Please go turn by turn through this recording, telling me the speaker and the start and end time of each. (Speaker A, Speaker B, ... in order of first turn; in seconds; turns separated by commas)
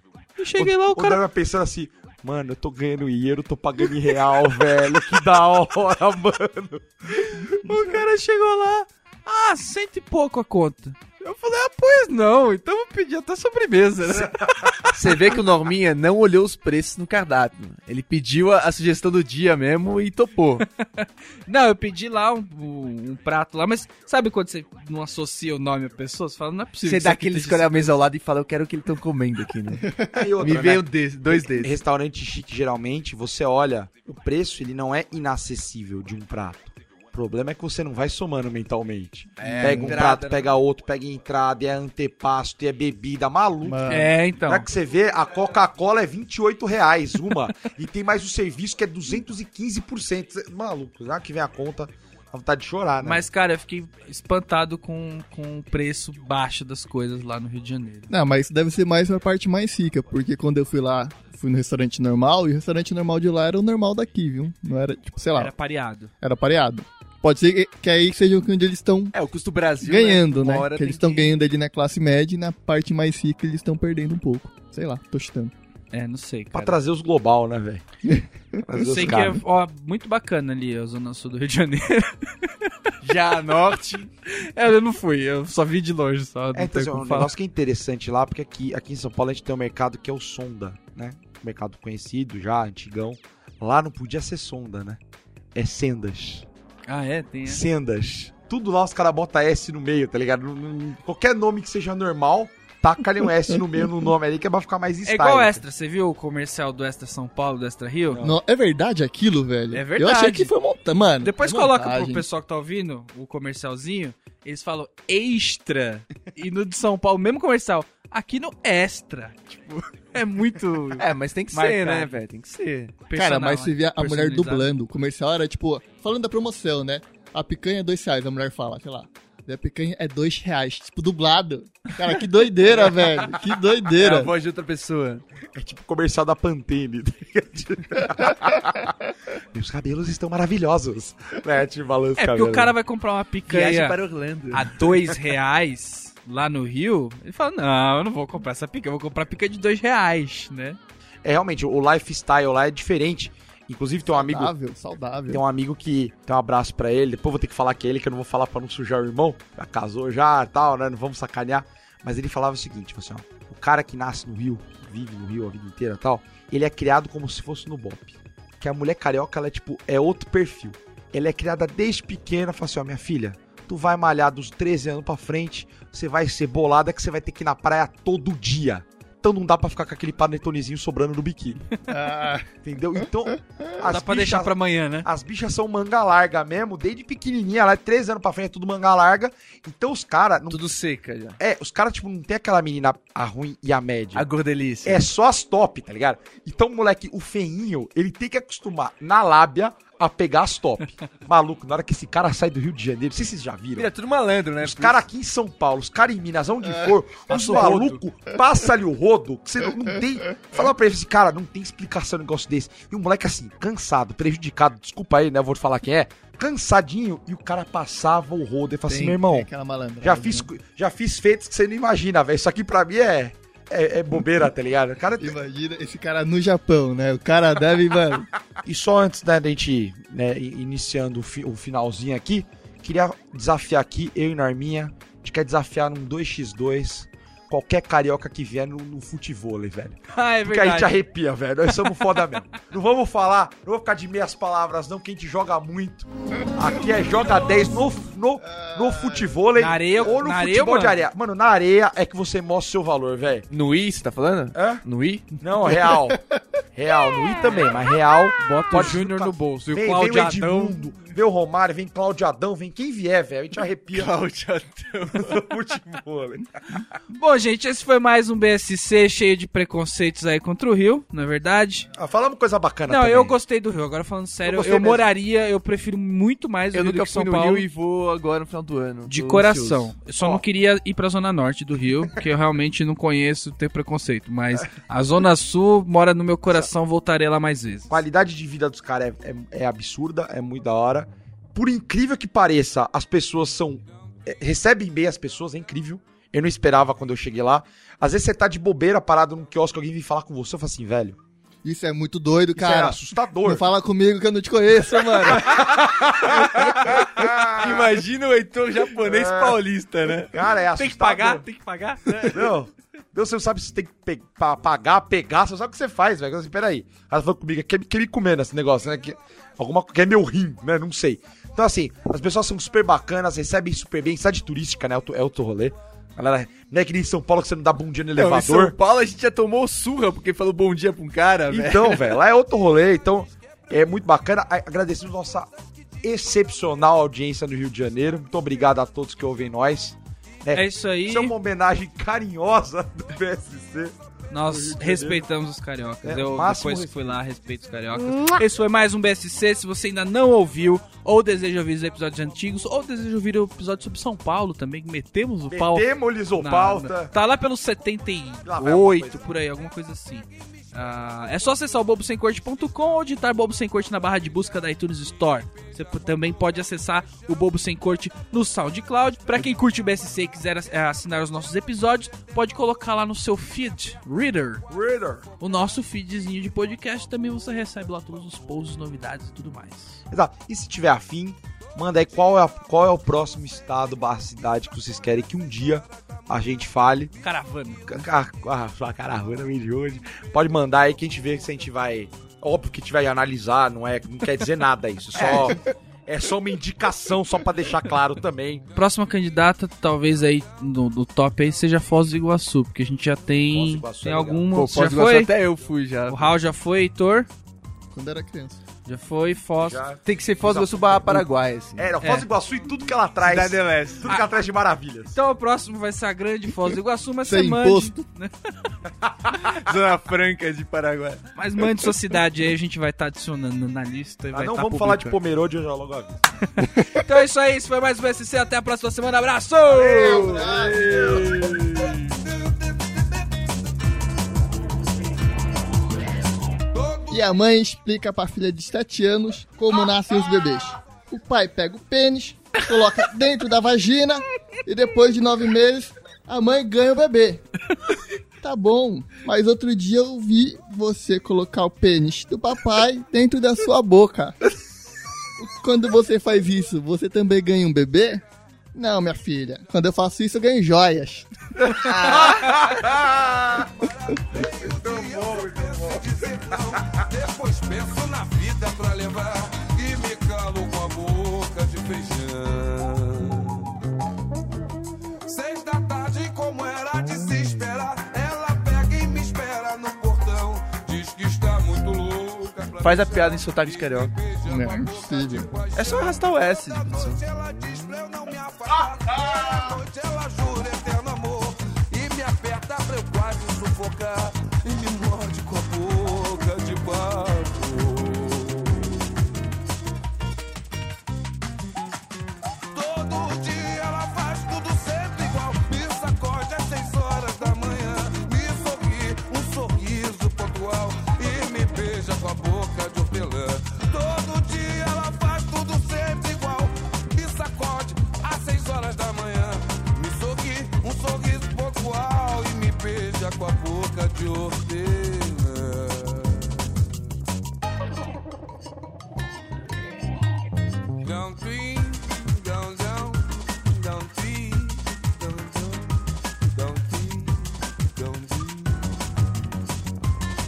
Speaker A: 0.4-1.2, Speaker B: 0.6-7.6, Speaker A: 7.6-14.7, Speaker B: 14.2-14.9, Speaker C: 14.9-20.6, Speaker A: 20.8-27.9, Speaker C: 26.8-29.9, Speaker D: 29.9-30.3, Speaker B: 30.1-30.8, Speaker C: 30.4-31.8, Speaker B: 31.4-53.2, Speaker C: 39.4-40.5, Speaker D: 39.4-40.1, Speaker D: 43.6-44.1, Speaker A: 43.9-44.6, Speaker A: 53.0-58.1, Speaker D: 58.1-65.5, Speaker A: 65.3-66.1, Speaker D: 66.2-69.1, Speaker C: 69.1-71.3, Speaker D: 69.8-75.5, Speaker A: 75.9-76.8, Speaker B: 76.5-77.8, Speaker B: 78.7-79.4, Speaker A: 78.8-82.5, Speaker A: 83.0-87.3, Speaker B: 86.5-95.0, Speaker B: 95.5-96.5, Speaker A: 96.9-97.6, Speaker B: 97.5-105.6, Speaker A: 105.0-108.2, Speaker B: 108.1-108.3, Speaker D: 108.2-112.2, Speaker A: 109.7-110.5, Speaker A: 111.2-122.2, Speaker C: 121.0-122.9, Speaker A: 123.1-124.7, Speaker D: 123.1-134.3, Speaker C: 133.9-135.2, Speaker B: 135.6-142.7, Speaker A: 142.2-144.0, Speaker C: 143.5-144.8, Speaker A: 144.5-150.8, Speaker B: 151.2-154.5, Speaker D: 154.1-155.4, Speaker B: 155.3-181.6, Speaker D: 181.9-183.6, Speaker B: 182.6-190.6, Speaker A: 183.8-185.1, Speaker C: 190.5-191.4, Speaker B: 191.4-194.2, Speaker C: 194.1-195.1, Speaker B: 194.8-203.9, Speaker C: 203.7-205.0, Speaker B: 204.6-219.5, Speaker A: 207.3-208.0, Speaker D: 218.9-220.5, Speaker B: 220.0-225.3, Speaker D: 225.2-228.3, Speaker B: 228.6-253.5, Speaker A: 240.1-240.9, Speaker A: 249.5-251.1, Speaker C: 253.5-255.3, Speaker B: 254.5-254.8, Speaker B: 255.4-256.2, Speaker B: 256.7-264.1, Speaker A: 258.4-260.8, Speaker C: 263.9-265.5, Speaker B: 265.1-266.8, Speaker A: 267.1-271.9, Speaker B: 271.9-273.3, Speaker A: 272.9-277.6, Speaker B: 274.4-275.1, Speaker C: 276.7-279.9, Speaker A: 279.1-288.0, Speaker B: 287.9-301.2, Speaker D: 301.6-305.6, Speaker B: 302.6-303.6, Speaker B: 305.3-307.9, Speaker C: 307.5-310.3, Speaker B: 309.0-309.6, Speaker B: 310.3-311.4, Speaker A: 310.8-312.5, Speaker B: 312.2-328.8, Speaker C: 328.1-332.1, Speaker B: 331.5-335.5, Speaker B: 336.0-343.9, Speaker A: 340.5-341.3, Speaker A: 344.3-355.9, Speaker B: 344.5-345.2, Speaker B: 346.0-347.1, Speaker B: 355.5-357.1, Speaker A: 356.4-374.6, Speaker B: 358.4-359.2, Speaker B: 374.7-375.2, Speaker A: 375.4-380.0, Speaker B: 380.1-387.1, Speaker A: 387.2-388.0, Speaker B: 387.9-398.6, Speaker A: 398.7-405.3, Speaker B: 403.5-404.5, Speaker C: 404.5-406.3, Speaker A: 406.1-407.3, Speaker D: 407.9-408.6, Speaker A: 408.8-409.8, Speaker B: 409.6-415.2, Speaker C: 410.0-411.9, Speaker A: 412.0-412.3, Speaker C: 413.2-414.1, Speaker A: 415.1-418.5, Speaker D: 417.2-418.0, Speaker B: 419.1-419.4, Speaker C: 419.5-421.2, Speaker A: 421.4-425.2, Speaker B: 424.3-426.2, Speaker A: 426.5-430.4, Speaker B: 429.7-431.2, Speaker C: 429.9-432.1, Speaker E: 432.0-433.4, Speaker E: 436.7-437.2, Speaker D: 437.1-447.4, Speaker D: 448.4-454.4, Speaker D: 455.4-462.7, Speaker B: 461.9-463.7, Speaker E: 463.8-473.7, Speaker B: 464.4-466.0, Speaker E: 475.2-499.2, Speaker C: 482.8-484.1, Speaker D: 484.4-485.5, Speaker C: 485.7-487.2, Speaker E: 502.7-526.9, Speaker E: 531.0-539.4